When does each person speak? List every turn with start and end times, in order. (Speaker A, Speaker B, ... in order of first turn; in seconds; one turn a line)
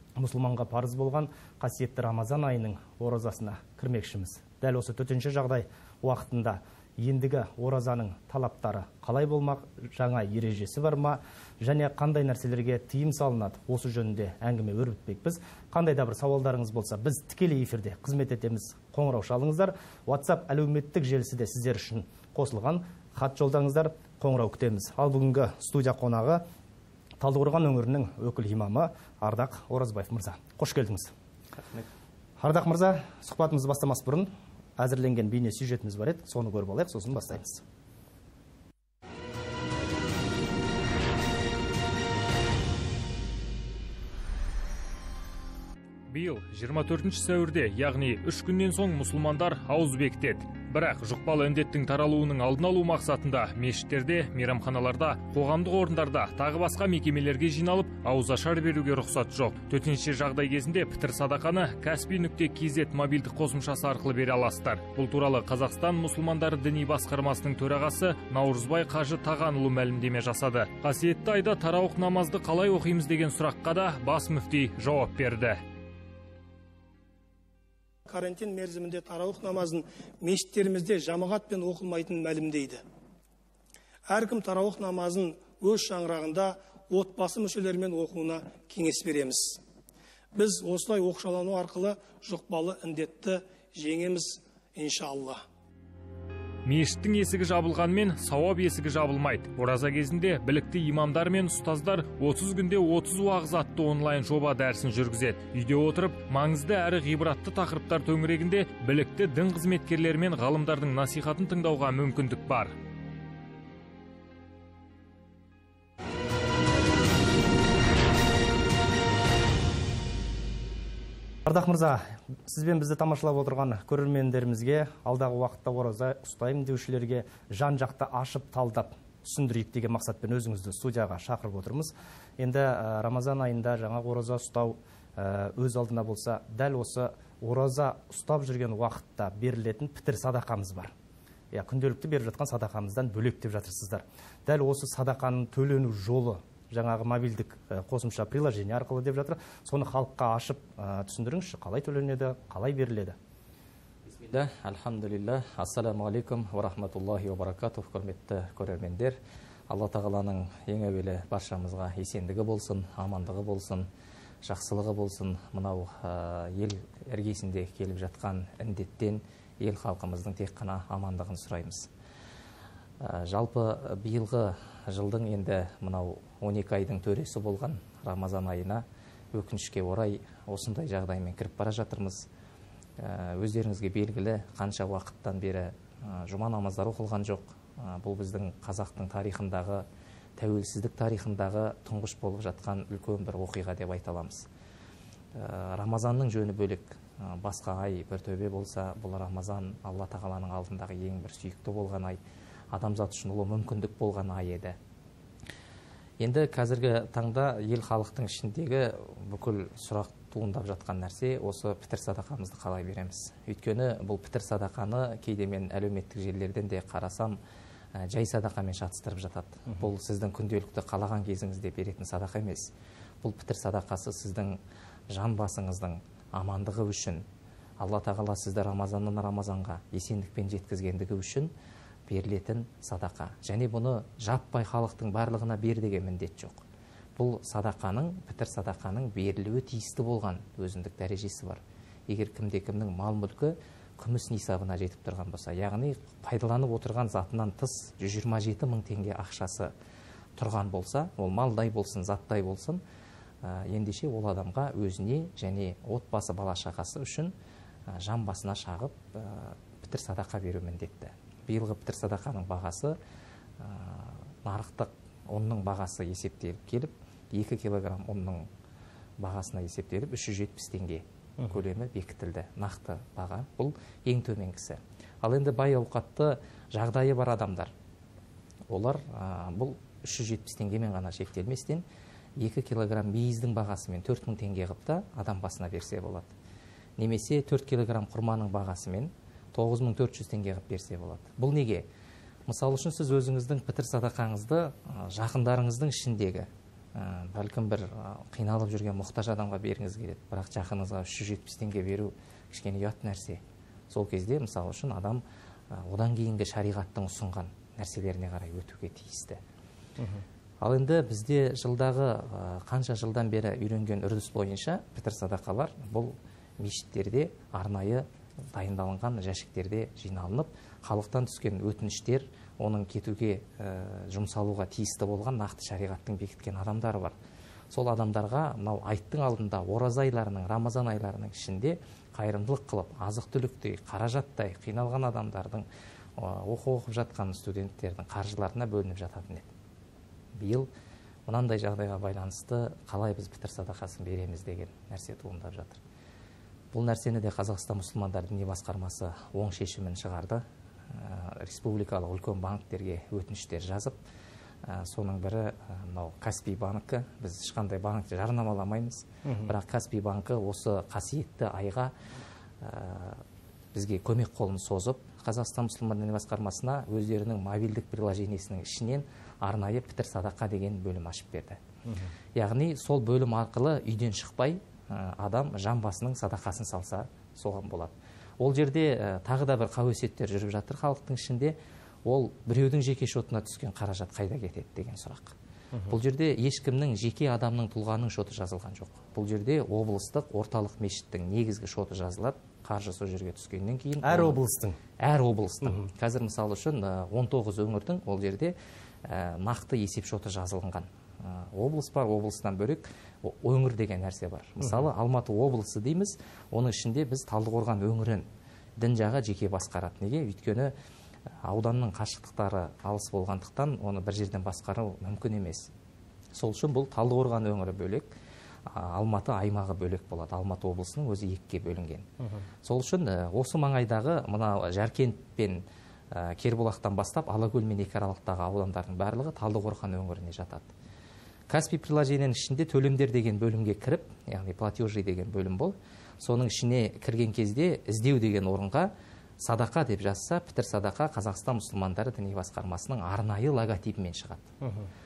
Speaker A: 0.2-26.4
Speaker A: 27.2-31.1
Speaker A: 32.4-37.6
Speaker B: 46.1-75.6
Speaker C: 78.1-82.8
Speaker C: 84.1-89.6
Speaker C: 90.3-95.4
Speaker B: 96.6-112.7
Speaker A: 121.4-140.9
Speaker A: 141.5-153.2
Speaker D: 154.2-159.2
Speaker D: 159.7-163.9
Speaker D: 164.4-171.9
Speaker D: 173.0-178.8
Speaker D: 179.3-182.2
Speaker D: 183.0-189.8
Speaker D: 190.4-194.5
Speaker D: 195.3-202.2
Speaker D: 202.7-204.8
Speaker D: 206.2-217.3
Speaker D: 218.0-222.7
Speaker D: 223.2-224.6
Speaker D: 225.1-227.2
Speaker D: 227.8-231.5
Speaker D: 232.1-236.6
Speaker D: 237.2-249.7
Speaker D: 250.4-252.8
Speaker D: 253.4-257.3
Speaker D: 257.9-262.9
Speaker D: 263.6-268.4
Speaker D: 269.2-277.7
Speaker D: 278.7-281.8
Speaker D: 282.4-286.3
Speaker D: 287.0-291.8
Speaker D: 292.5-309.4
Speaker A: 310.0-310.2
Speaker D: 310.6-327.1
Speaker D: 327.7-335.6
Speaker D: 336.2-339.5
Speaker D: 340.4-340.7
Speaker D: 341.3-345.8
Speaker D: 346.7-354.0
Speaker D: 354.6-361.9
Speaker A: 359.2-359.5
Speaker D: 362.6-363.2
Speaker D: 363.7-371.6
Speaker A: 371.9-372.1
Speaker D: 372.4-381.5
Speaker D: 382.1-385.3
Speaker D: 385.9-394.4
Speaker A: 394.0-394.8
Speaker D: 395.0-408.2
Speaker A: 395.6-395.9
Speaker A: 404.6-404.9
Speaker D: 408.8-410.7
Speaker D: 411.4-415.7
Speaker D: 416.3-418.1
Speaker D: 418.7-422.1
Speaker A: 422.2-422.4
Speaker D: 422.6-430.7
Speaker D: 431.5-438.9
Speaker D: 439.4-444.5
Speaker A: 444.6-444.9